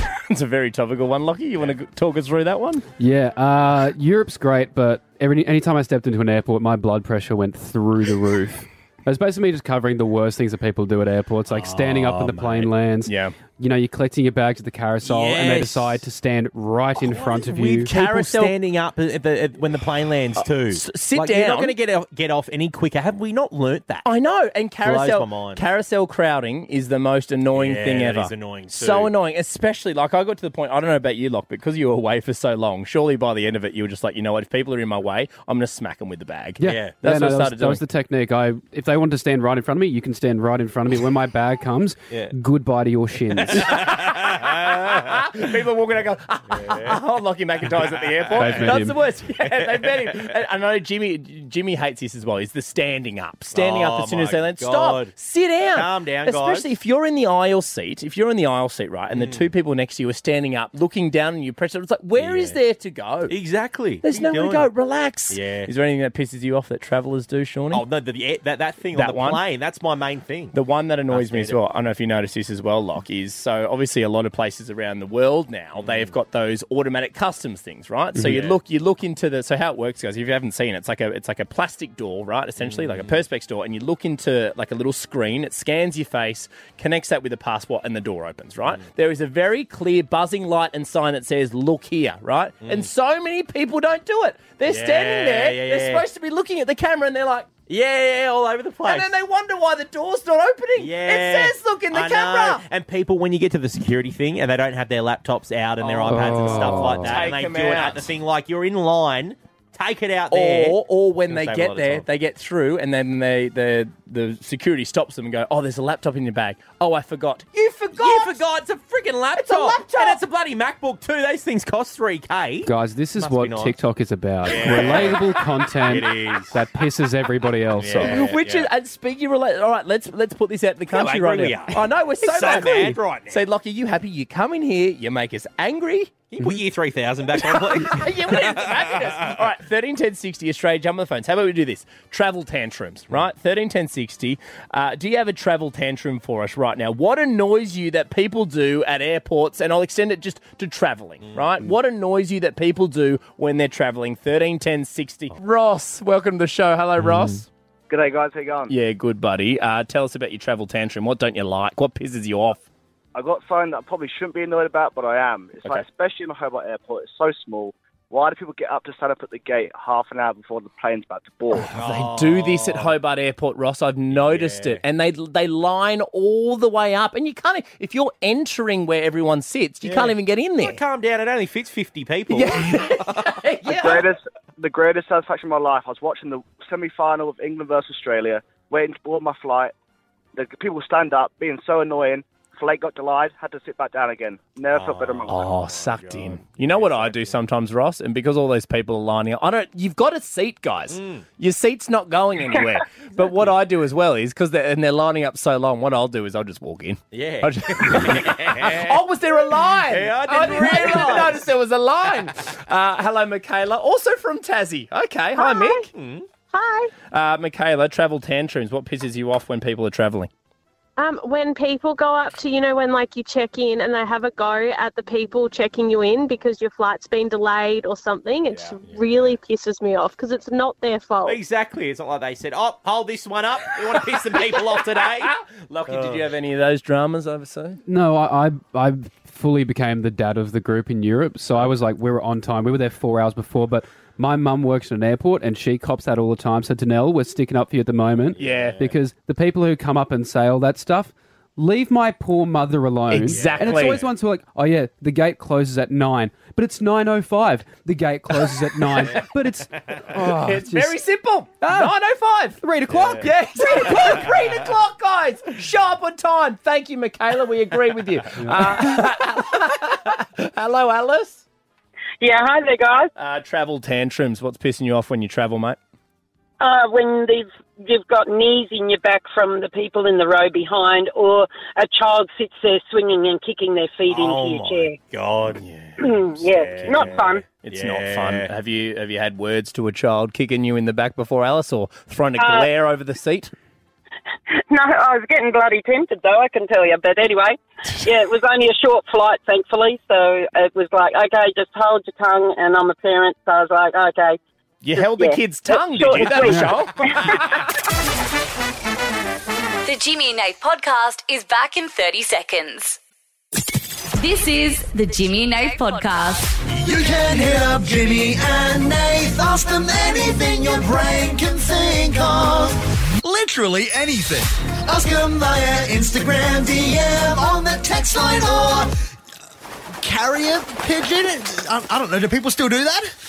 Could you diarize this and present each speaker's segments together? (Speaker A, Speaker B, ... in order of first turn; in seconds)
Speaker A: 0.3-2.8, 13.1-13.3, 17.9-18.5, 20.4-21.8, 24.0-37.8, 43.7-63.3, 64.0-67.8, 68.9-69.4, 70.5-97.5, 98.8-102.6, 105.8-108.1, 110.3-118.5, 119.4-120.2, 128.0-136.1, 137.4-157.5, 158.7-162.6, 171.6-180.8, 182.3-184.0, 195.3-215.9, 217.1-220.3, 235.2-237.8, 248.4-248.8, 253.1-254.0, 260.4-271.4, 273.2-275.8, 285.6-285.9, 286.8-293.5, 304.8-307.5
Speaker B: 3.0-17.9, 36.6-43.9, 48.4-49.0, 106.1-107.2, 122.7-128.2, 157.0-157.4, 237.9-261.0, 261.6-261.9, 262.6-264.2, 268.4-269.1, 306.4-306.8
Speaker C: 11.5-12.7, 15.0-16.0, 16.9-24.1, 24.8-25.6, 27.5-29.1, 36.6-37.0, 43.3-45.2, 46.5-47.0, 47.9-50.3, 53.5-55.1, 55.7-56.7, 59.1-59.5, 62.2-62.6, 63.3-64.7, 65.3-65.7, 67.7-70.6, 71.1-71.6, 75.8-76.1, 78.2-78.6, 82.6-83.2, 92.6-92.9, 94.7-96.0, 97.7-99.1, 100.8-112.0, 117.9-123.8, 124.4-126.6, 127.7-128.7, 130.9-133.4, 136.3-139.4, 151.2-151.7, 171.7-173.0, 174.1-174.8, 179.8-184.0, 194.7-197.4, 200.9-201.2, 203.2-203.6, 207.1-209.0, 209.9-211.5, 215.8-216.3, 228.5-229.4, 231.2-235.3, 235.9-236.3, 248.3-249.0, 253.1-254.1, 259.8-260.1, 262.9-263.3, 263.9-264.4, 284.1-285.6, 286.3-288.5
Speaker D: 157.9-158.7, 163.2-171.7, 183.7-189.7, 190.3-195.4
Speaker E: 215.4-215.7, 221.0-231.3
Speaker F: 272.2-273.1, 276.6-285.0, 286.0-287.4, 292.4-292.7, 294.7-304.4, 304.9-307.4
Speaker G: 309.9-313.0, 314.1-316.6
Speaker H: 316.7-328.9, 330.0-333.1